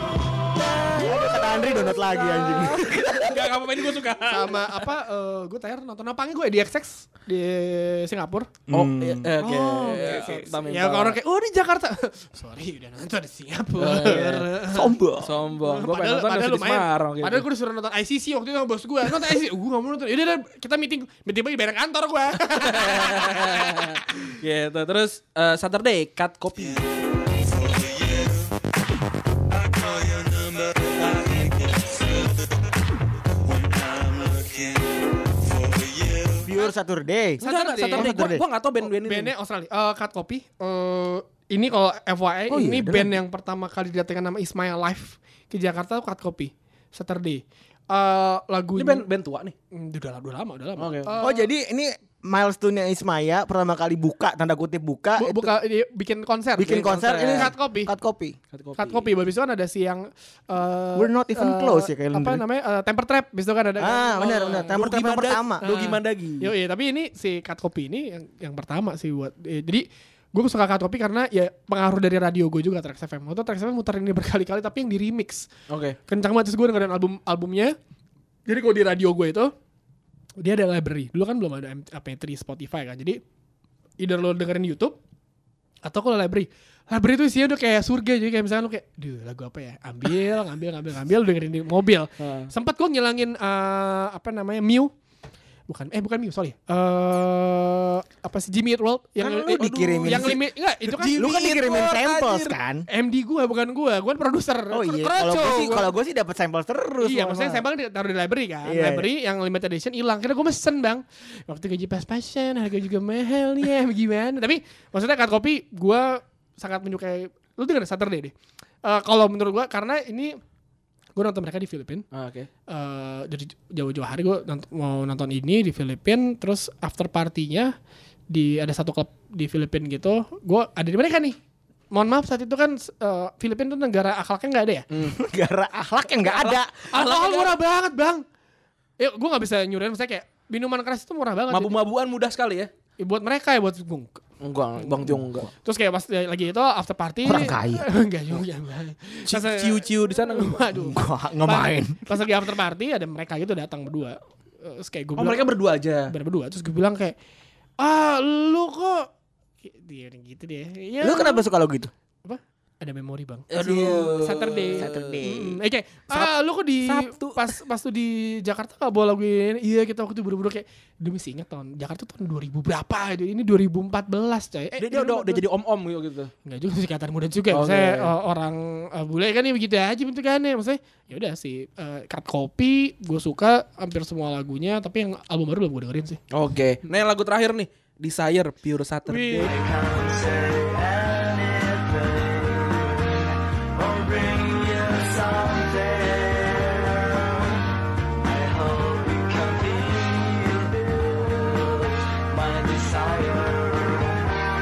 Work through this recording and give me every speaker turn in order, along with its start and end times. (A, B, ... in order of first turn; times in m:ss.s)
0:00.5-0:03.5 A
0:02.6-0:04.7 B
0:04.2-0:08.5 C
0:08.7-0:10.4 A
0:08.7-0:11.2 B
0:09.8-0:15.0 C
0:13.8-0:14.5 B
0:14.7-0:15.4 A
0:15.2-0:17.5 B
0:15.6-0:24.3 C
0:22.6-0:26.8 B
0:27.6-0:28.3 B
0:29.8-0:32.1 B
0:33.5-0:34.9 B
0:35.6-0:36.4 B
0:36.4-0:38.4 A
0:37.4-0:38.2 C
0:37.4-0:39.3 B
0:38.8-0:49.0 C
0:42.5-0:43.2 A
0:48.8-0:49.5 B
0:49.7-0:51.5 C
0:50.8-0:51.1 B
0:51.2-0:55.5 A
0:55.2-0:57.9 C
0:56.6-0:58.4 A
0:56.6-0:57.5 B
0:58.5-0:59.1 B
0:58.8-1:04.8 C
1:01.0-1:02.4 A
1:03.8-1:05.7 A
1:04.3-1:06.5 B
1:05.6-1:15.5 C
1:15.7-1:16.0 B
1:16.1-1:17.8 C
1:18.5-1:19.5 C
1:20.4-1:23.2 C
1:24.0-1:25.0 C
1:25.8-1:34.9 C
1:32.2-1:32.5 B
1:35.7-1:45.9 C
1:39.2-1:42.9 A
1:39.7-1:40.4 B
1:40.9-1:42.4 B
1:44.7-1:47.6 A
1:47.0-1:58.3 C
1:48.7-1:49.1 A
1:58.8-2:00.4 C
2:01.2-2:02.1 C
2:02.1-2:02.5 B
2:02.7-2:07.7 C
2:08.3-2:11.4 C
2:11.9-2:14.9 C
2:14.9-2:15.2 B
2:15.0-2:16.8 A
2:16.2-2:17.6 B
2:16.9-2:18.2 C
2:19.0-2:21.7 C
2:21.5-2:22.7 B
2:23.0-2:24.2 C
2:24.4-2:25.5 B
2:24.8-2:25.1 C
2:25.6-2:35.5 C
2:27.2-2:27.9 A
2:29.3-2:30.7 B
2:30.8-2:32.2 A
2:35.2-2:36.1 B
2:36.1-2:37.2 C
2:37.8-2:39.1 C
2:39.6-2:41.5 C
2:41.0-2:41.9 A
2:42.2-2:55.4 C
2:43.5-2:45.2 B
2:44.8-2:45.6 A
2:46.1-2:47.6 B
2:54.8-2:56.3 B
2:56.4-3:06.2 C
2:57.5-2:58.1 B
3:06.3-3:09.6 B
3:09.1-3:09.5 C
3:09.6-3:12.4 A
3:13.8-3:17.1 A
3:18.3-3:20.7 A
3:22.4-3:23.8 A